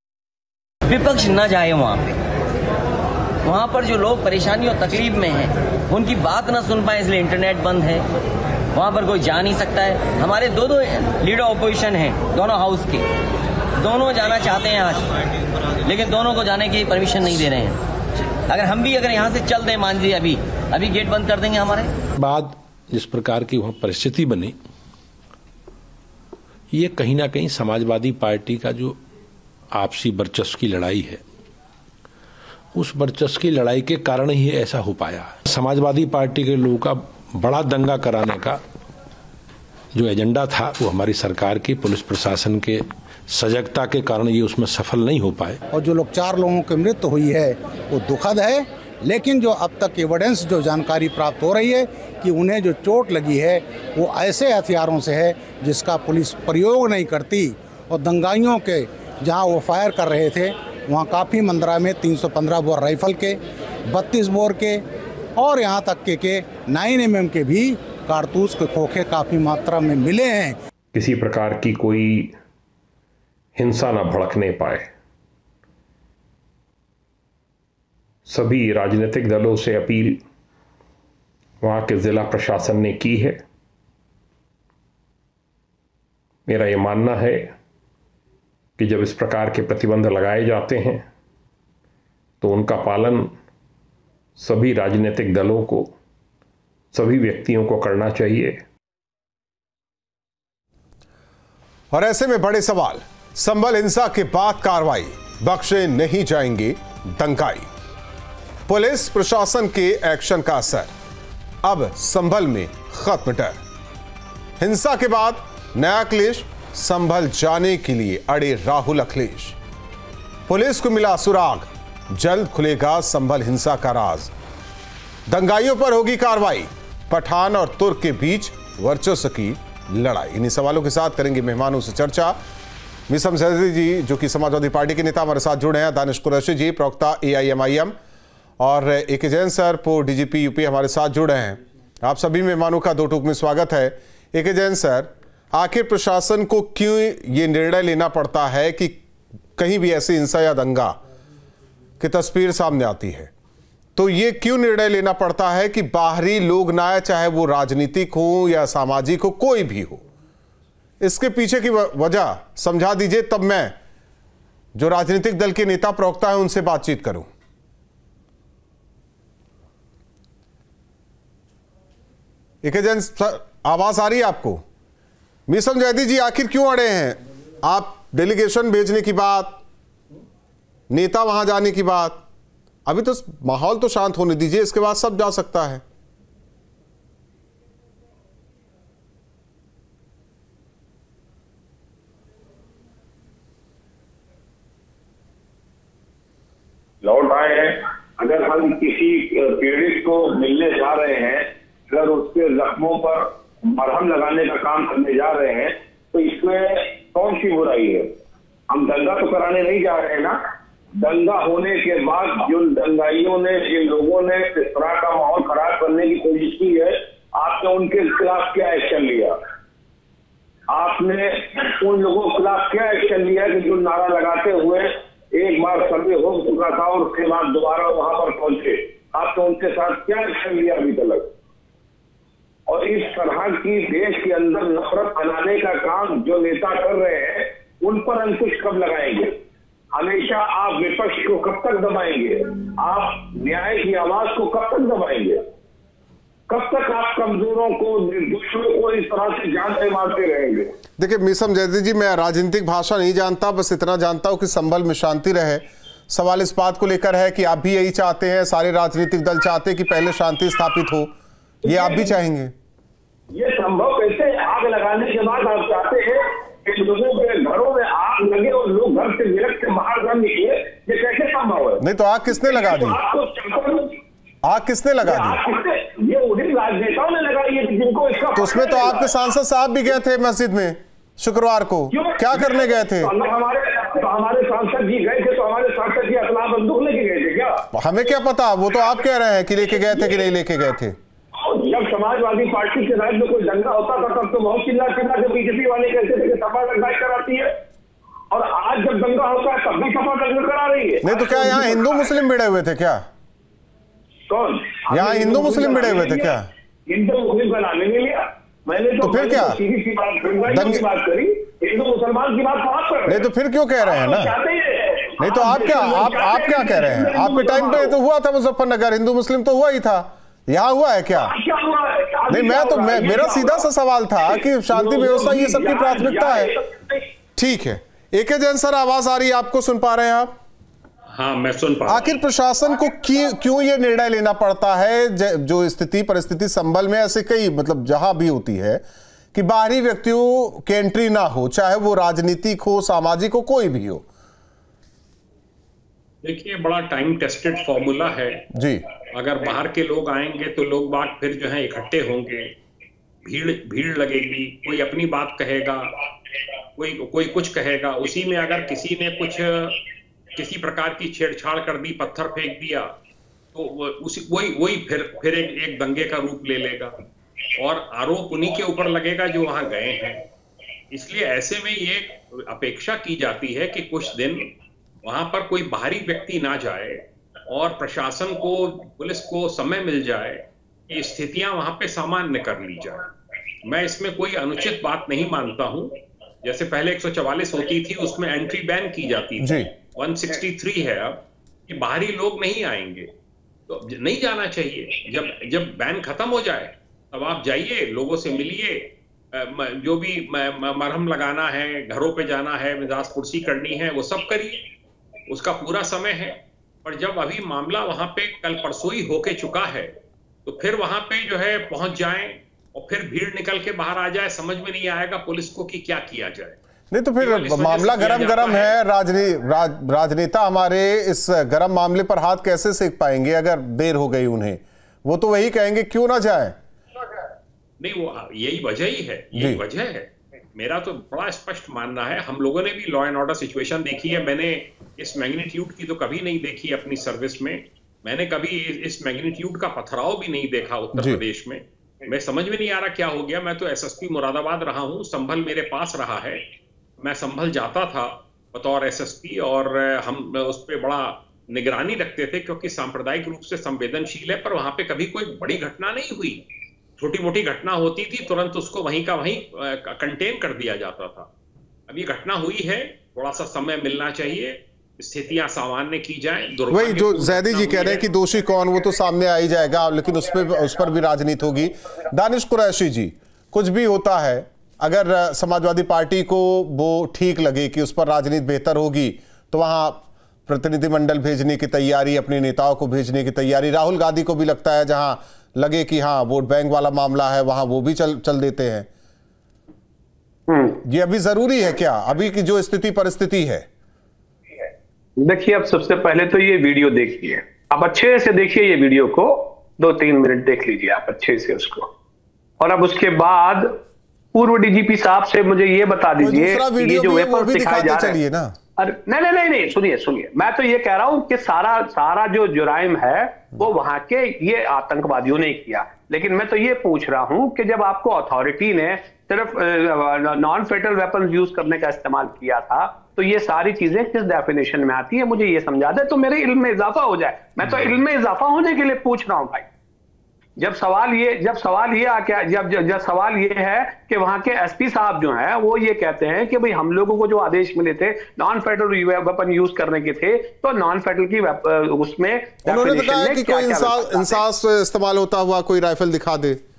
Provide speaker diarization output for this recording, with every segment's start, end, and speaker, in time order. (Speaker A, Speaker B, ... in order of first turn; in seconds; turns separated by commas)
Speaker A: 0.9-2.1, Speaker A: 3.4-8.1, Speaker A: 8.7-13.0, Speaker A: 13.8-15.1, Speaker A: 15.8-17.8, Speaker A: 18.5-21.9, Speaker B: 22.2-24.5, Speaker B: 26.7-29.0, Speaker B: 29.7-31.2, Speaker B: 32.7-38.6, Speaker B: 39.9-45.6, Speaker C: 45.7-64.8, Speaker C: 65.3-70.6, Speaker D: 70.9-72.3, Speaker D: 73.5-74.9, Speaker D: 78.3-80.2, Speaker D: 81.6-83.4, Speaker D: 86.5-87.5, Speaker D: 88.8-91.0, Speaker D: 92.4-93.3, Speaker D: 94.4-95.9, Speaker D: 96.9-98.6, Speaker E: 101.9-107.7, Speaker E: 108.7-110.9, Speaker E: 111.6-113.6, Speaker E: 114.6-119.5, Speaker E: 120.5-124.3, Speaker E: 125.3-132.4, Speaker E: 133.1-137.9, Speaker E: 138.6-149.0, Speaker E: 149.6-150.9, Speaker E: 152.0-153.3, Speaker E: 153.9-160.0, Speaker E: 161.0-163.8, Speaker E: 164.7-167.3, Speaker E: 172.6-174.6, Speaker E: 175.5-179.6, Speaker E: 180.9-182.2, Speaker E: 182.9-185.8, Speaker F: 197.0-208.1, Speaker F: 208.7-210.3, Speaker F: 211.0-219.3, Speaker F: 220.7-231.3, Speaker F: 232.7-239.3, Speaker F: 239.9-245.4, Speaker F: 246.5-250.7, Speaker E: 251.0-262.5, Speaker F: 261.6-262.1, Speaker F: 263.3-271.8, Speaker E: 271.8-273.0, Speaker F: 272.3-273.9, Speaker E: 274.4-275.4, Speaker F: 275.0-279.1, Speaker E: 278.4-283.1, Speaker F: 281.9-287.6, Speaker E: 287.8-290.9, Speaker F: 289.9-290.2, Speaker F: 291.4-297.5, Speaker F: 298.3-302.1, Speaker E: 301.0-303.0, Speaker F: 304.3-313.2, Speaker E: 304.9-306.5, Speaker E: 309.0-309.6, Speaker E: 310.5-310.8, Speaker E: 313.1-314.3, Speaker F: 313.8-318.0, Speaker E: 315.2-321.3, Speaker F: 321.2-323.7, Speaker E: 322.3-326.5, Speaker F: 324.2-327.0, Speaker E: 327.4-330.3, Speaker D: 331.1-332.2, Speaker E: 331.9-338.8, Speaker E: 339.3-344.1, Speaker D: 346.2-348.4, Speaker E: 348.5-348.8, Speaker D: 349.1-352.5, Speaker D: 353.2-359.8, Speaker D: 360.3-362.9, Speaker D: 363.5-366.9, Speaker D: 367.6-370.2, Speaker D: 370.9-374.4, Speaker D: 375.0-377.0, Speaker D: 377.5-383.1, Speaker D: 383.6-385.9, Speaker D: 386.4-393.1, Speaker E: 389.4-389.7, Speaker D: 393.7-404.6, Speaker D: 405.3-409.9, Speaker D: 410.4-416.6, Speaker E: 416.9-426.6, Speaker D: 417.2-418.7, Speaker D: 427.8-446.4, Speaker E: 429.4-429.6, Speaker E: 440.9-441.2, Speaker D: 447.0-456.4, Speaker D: 457.0-461.3, Speaker D: 461.9-468.0, Speaker E: 466.7-488.9, Speaker G: 490.5-490.8, Speaker E: 490.8-493.7, Speaker G: 495.2-501.9, Speaker G: 502.6-503.7, Speaker G: 504.3-508.2, Speaker E: 506.2-508.5, Speaker G: 508.8-529.7, Speaker E: 527.6-527.9, Speaker G: 530.6-544.4, Speaker E: 542.7-546.6